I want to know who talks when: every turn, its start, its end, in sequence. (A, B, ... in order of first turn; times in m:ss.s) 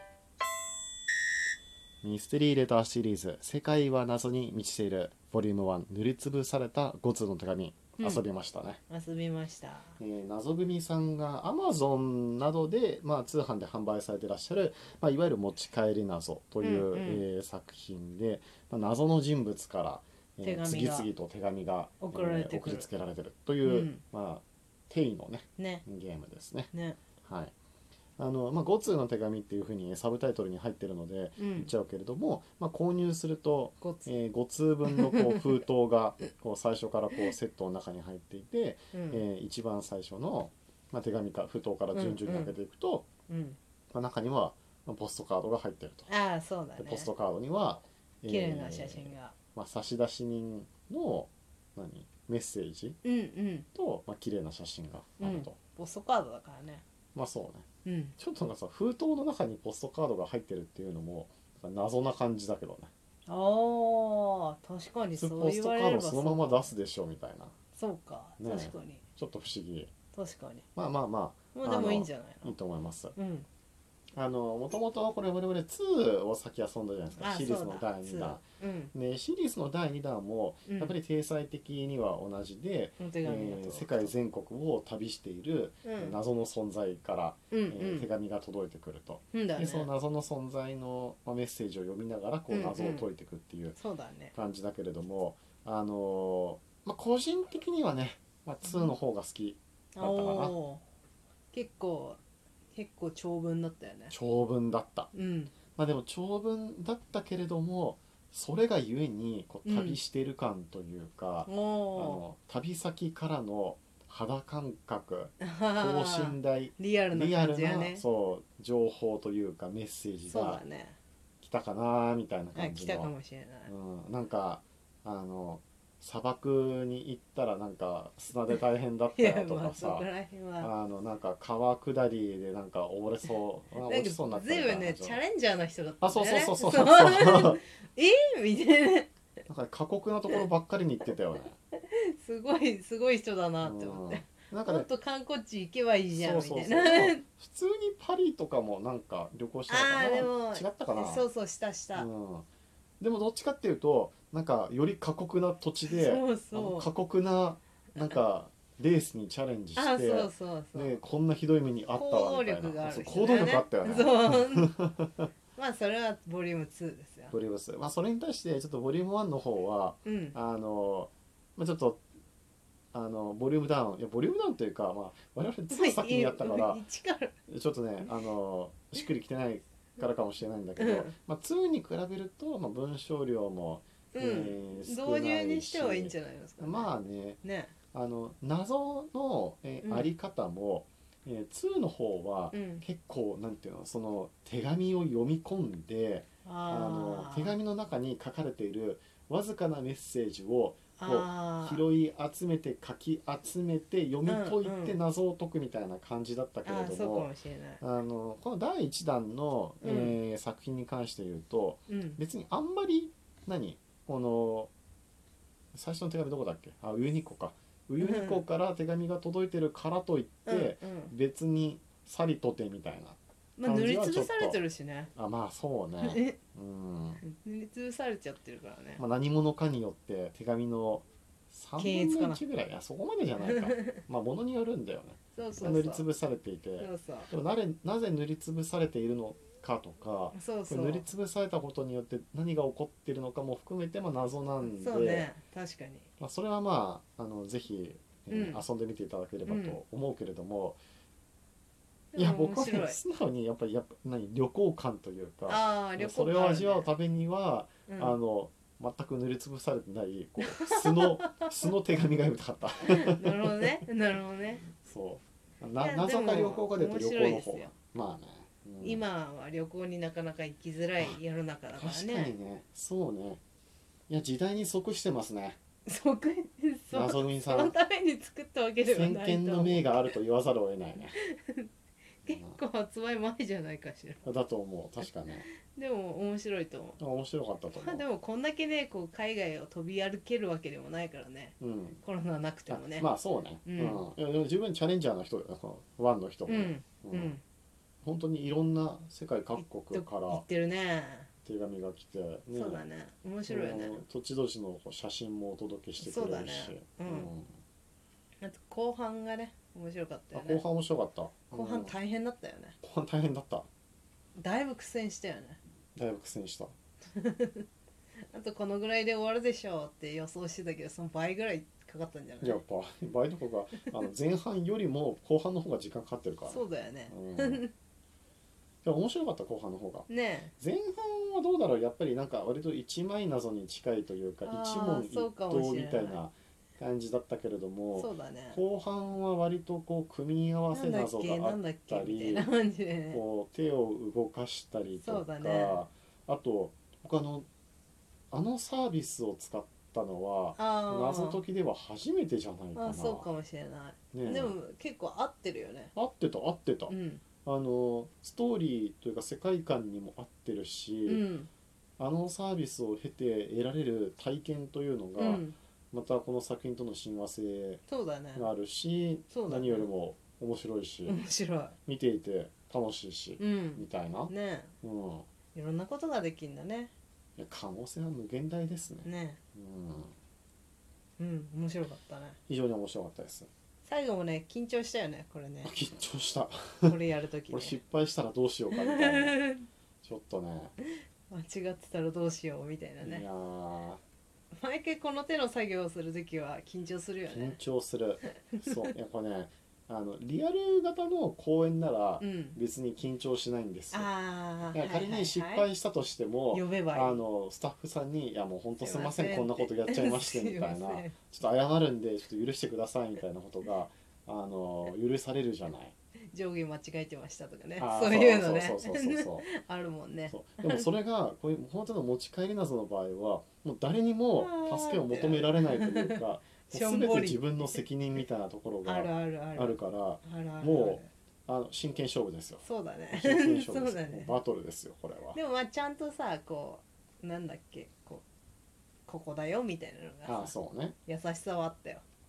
0:02.0-0:08.8 A
0:08.0-0:08.2 B
0:08.9-0:10.0 B
0:10.0-0:26.7 A
0:16.6-0:17.2 B
0:20.4-0:21.1 B
0:22.0-0:22.9 B
0:23.6-0:24.0 B
0:25.6-0:25.8 B
0:26.7-0:27.0 B
0:27.2-0:27.5 A
0:28.2-0:43.0 A
0:31.4-0:31.7 B
0:33.8-0:34.1 B
0:34.8-0:35.4 B
0:38.9-0:39.2 B
0:41.9-0:42.6 B
0:43.3-0:43.6 B
0:43.9-0:46.1 A
0:46.1-0:47.1 B
0:46.8-0:53.0 A
0:48.3-0:49.4 B
0:53.0-0:53.7 B
0:53.7-0:55.6 A
0:55.2-0:56.8 B
0:57.1-0:57.7 A
0:57.8-0:58.2 B
0:58.2-1:02.9 A
1:03.3-1:06.7 B
1:05.2-1:07.5 A
1:07.8-1:09.0 B
1:08.4-1:09.9 A
1:10.1-1:10.6 B
1:10.7-1:13.1 A
1:11.5-1:12.5 B
1:13.1-1:13.4 B
1:14.1-1:33.8 A
1:17.2-1:18.9 B
1:20.6-1:20.9 B
1:23.0-1:24.1 B
1:25.8-1:26.2 B
1:27.5-1:28.1 B
1:29.3-1:29.9 B
1:32.5-1:33.1 B
1:33.8-1:34.3 B
1:34.3-1:40.6 A
1:38.6-1:38.9 B
1:40.0-1:40.8 B
1:41.5-1:42.2 B
1:42.7-1:44.1 B
1:44.1-1:45.1 A
1:45.1-1:45.5 B
1:45.7-2:00.6 A
1:49.6-1:50.0 B
1:51.4-1:52.2 B
1:55.4-1:58.0 B
2:00.3-2:01.0 B
2:01.4-2:03.1 A
2:02.5-2:03.7 B
2:03.6-2:10.1 A
2:09.2-2:10.7 B
2:10.6-2:15.2 A
2:13.8-2:19.1 B
2:16.0-2:17.6 A
2:19.5-2:21.6 A
2:21.7-2:27.2 B
2:23.6-2:24.9 A
2:26.1-2:31.3 A
2:29.7-2:32.1 B
2:31.9-2:32.5 A
2:33.0-2:45.3 A
2:35.8-2:36.9 B
2:39.8-2:41.0 B
2:41.9-2:44.7 B
2:45.6-2:47.3 B
2:47.3-2:52.0 A
2:50.0-2:50.4 B
2:52.9-2:56.8 A
2:55.7-2:57.3 B
2:57.5-3:07.4 A
3:00.8-3:01.1 B
3:04.1-3:06.9 B
3:07.4-3:07.7 B
3:07.9-3:27.3 A
3:09.8-3:10.1 B
3:12.5-3:12.8 B
3:16.4-3:17.6 B
3:21.0-3:21.8 B
3:24.2-3:25.0 B
3:26.6-3:27.8 B
3:27.8-3:34.7 A
3:29.8-3:30.2 B
3:31.9-3:32.2 B
3:35.7-3:44.6 A
3:38.0-3:38.4 B
3:40.4-3:41.1 B
3:43.6-3:45.1 B
3:45.1-3:47.2 A
3:46.0-3:46.4 B
3:47.2-3:49.0 B
3:49.0-4:05.3 A
3:51.8-3:52.4 B
3:53.4-3:54.0 B
3:55.4-3:56.0 B
3:56.8-3:57.3 B
4:00.3-4:01.0 B
4:04.6-4:06.1 B
4:06.2-4:10.8 A
4:08.3-4:08.6 B
4:09.4-4:09.8 B
4:12.1-4:13.0 B
4:12.1-4:23.7 A
4:15.5-4:16.9 B
4:17.9-4:18.2 B
4:20.5-4:21.4 B
4:22.8-4:24.7 B
4:24.8-4:29.0 A
4:25.8-4:27.7 B
4:28.8-4:32.3 B
4:31.7-4:33.4 A
4:34.1-4:35.6 A
4:35.8-4:40.0 B
4:36.9-4:37.7 A
4:38.8-4:41.2 A
4:41.2-4:41.7 B
4:42.2-4:44.2 B
4:42.2-4:42.6 A
4:44.2-4:45.5 A
4:45.0-4:47.0 B
4:47.0-4:48.0 A
4:47.7-4:53.1 B
4:51.6-4:52.0 A
4:52.7-4:57.3 A
4:53.6-4:54.0 B
4:56.5-4:57.4 B
4:58.0-5:00.4 A
4:59.6-5:01.3 B
5:01.4-5:02.8 A
5:02.5-5:04.0 B
5:03.5-5:07.5 A
5:06.0-5:07.3 B
5:08.4-5:10.6 B
5:10.3-5:11.9 A
5:11.5-5:12.8 B
5:12.8-5:13.7 A
5:14.4-5:15.6 B
5:15.9-5:16.7 A
5:17.1-5:17.6 B
5:18.3-5:22.6 B
5:22.4-5:27.6 A
5:26.5-5:27.7 B
5:28.8-5:42.5 A
5:30.1-5:30.5 B
5:34.4-5:36.2 B
5:37.9-5:38.6 B
5:40.7-5:43.2 B
5:43.1-5:47.5 A
5:45.0-5:45.8 B
5:48.3-5:53.3 A
5:50.6-5:51.4 B
5:52.7-5:55.9 B
5:54.1-5:54.6 A
5:55.9-6:01.2 A
5:56.9-5:57.2 B
6:01.0-6:01.5 B
6:02.0-6:07.8 A
6:05.2-6:05.6 B
6:07.9-6:08.5 B
6:08.3-6:11.2 A
6:09.3-6:09.9 B
6:11.0-6:11.8 B
6:11.8-6:14.3 A
6:13.4-6:14.7 B
6:14.8-6:15.3 A
6:15.5-6:16.9 B
6:17.4-6:20.1 A
6:19.0-6:19.4 B
6:21.2-6:22.4 B
6:22.5-6:23.5 A
6:23.8-6:25.7 B
6:25.6-6:26.9 A
6:26.8-6:27.8 B
6:27.5-6:29.4 A
6:28.7-6:29.7 B
6:30.0-6:30.7 A
6:31.3-6:33.2 B
6:33.0-6:34.0 A
6:34.5-6:37.6 B
6:37.2-6:44.1 A
6:38.5-6:38.8 B
6:42.2-6:42.6 B
6:43.9-6:45.7 B
6:44.7-6:55.9 A
6:46.5-6:47.2 B
6:48.8-6:51.1 B
6:56.3-7:00.9 B
6:57.8-6:59.5 A
7:00.3-7:15.4 A
7:04.3-7:06.2 B
7:06.7-7:07.8 B
7:08.8-7:11.1 B
7:12.6-7:14.4 B
7:15.3-7:18.2 B
7:19.1-7:20.5 B
7:20.2-7:21.0 A
7:21.0-7:22.0 B